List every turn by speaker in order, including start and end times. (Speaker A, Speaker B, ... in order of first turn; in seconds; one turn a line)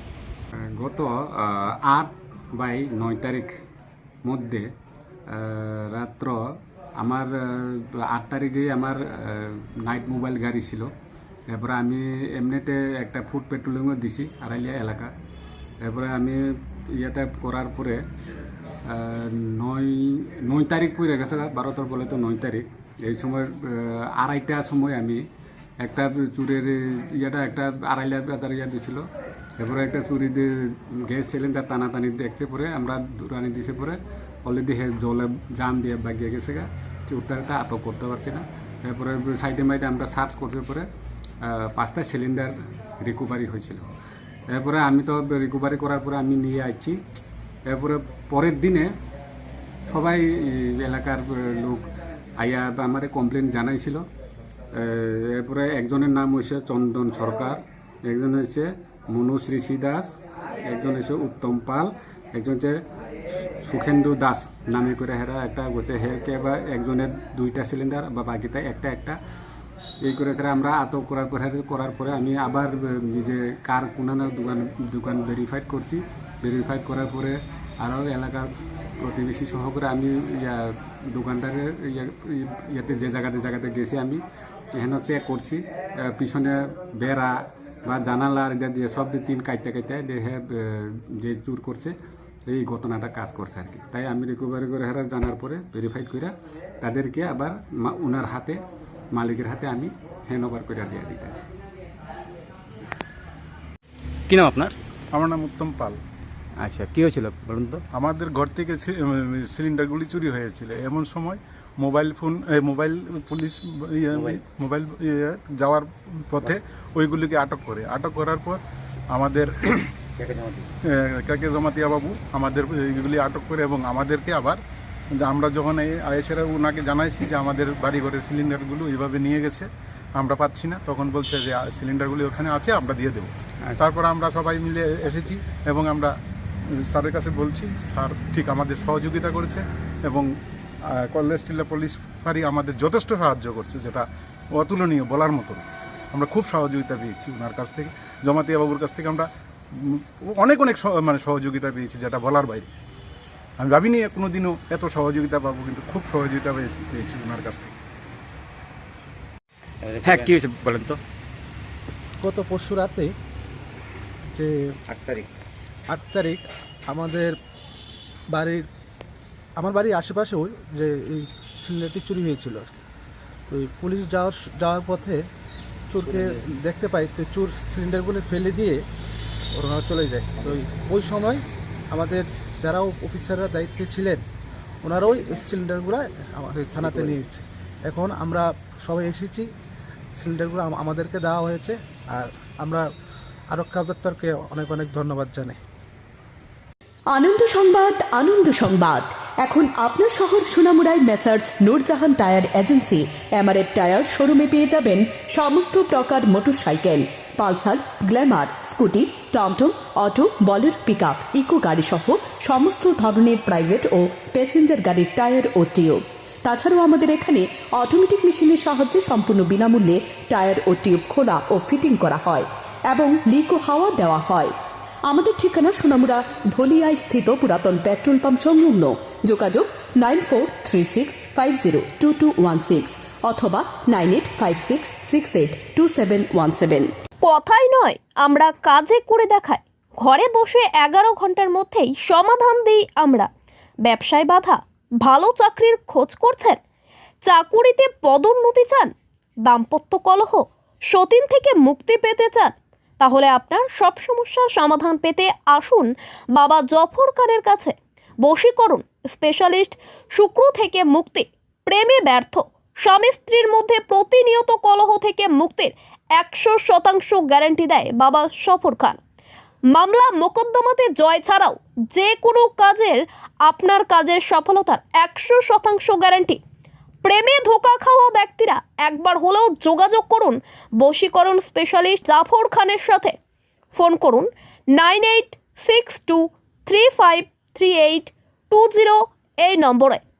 Speaker A: 0.5-3.6
Speaker A: 4.2-4.7
Speaker A: 5.3-6.4
Speaker A: 7.0-10.9
Speaker A: 11.5-15.1
Speaker A: 15.8-18.0
Speaker A: 18.9-25.2
Speaker A: 25.8-29.1
Speaker A: 29.6-40.9
Speaker A: 41.4-43.9
Speaker A: 44.5-47.0
Speaker A: 47.7-48.9
Speaker A: 49.9-51.9
Speaker A: 52.4-54.0
Speaker A: 54.7-60.1
Speaker A: 60.6-62.8
Speaker A: 63.6-69.2
Speaker A: 70.0-84.2
Speaker A: 84.7-92.0
Speaker A: 92.5-98.6
Speaker A: 99.1-101.5
Speaker B: 105.1-106.0
Speaker B: 107.9-119.8
Speaker C: 114.1-114.4
Speaker C: 120.2-120.7
Speaker B: 120.9-124.6
Speaker B: 125.1-136.1
Speaker B: 136.9-140.3
Speaker B: 140.9-152.7
Speaker B: 153.6-157.8
Speaker C: 159.8-160.9
Speaker D: 162.2-163.2
Speaker C: 164.9-165.3
Speaker D: 165.9-167.3
Speaker D: 168.3-168.7
Speaker D: 169.6-172.8
Speaker D: 173.5-175.2
Speaker D: 175.9-178.8
Speaker C: 176.0-176.4
Speaker D: 179.5-184.2
Speaker D: 184.8-189.5
Speaker C: 185.1-185.4
Speaker C: 186.8-187.2
Speaker D: 190.2-192.8
Speaker D: 193.5-195.6
Speaker E: 197.1-224.5
Speaker E: 225.1-236.9
Speaker F: 237.2-243.3
Speaker F: 243.8-246.6
Speaker F: 247.2-248.9
Speaker F: 249.5-269.0
Speaker F: 269.7-276.4
Speaker F: 277.0-283.2
Speaker F: 283.7-290.0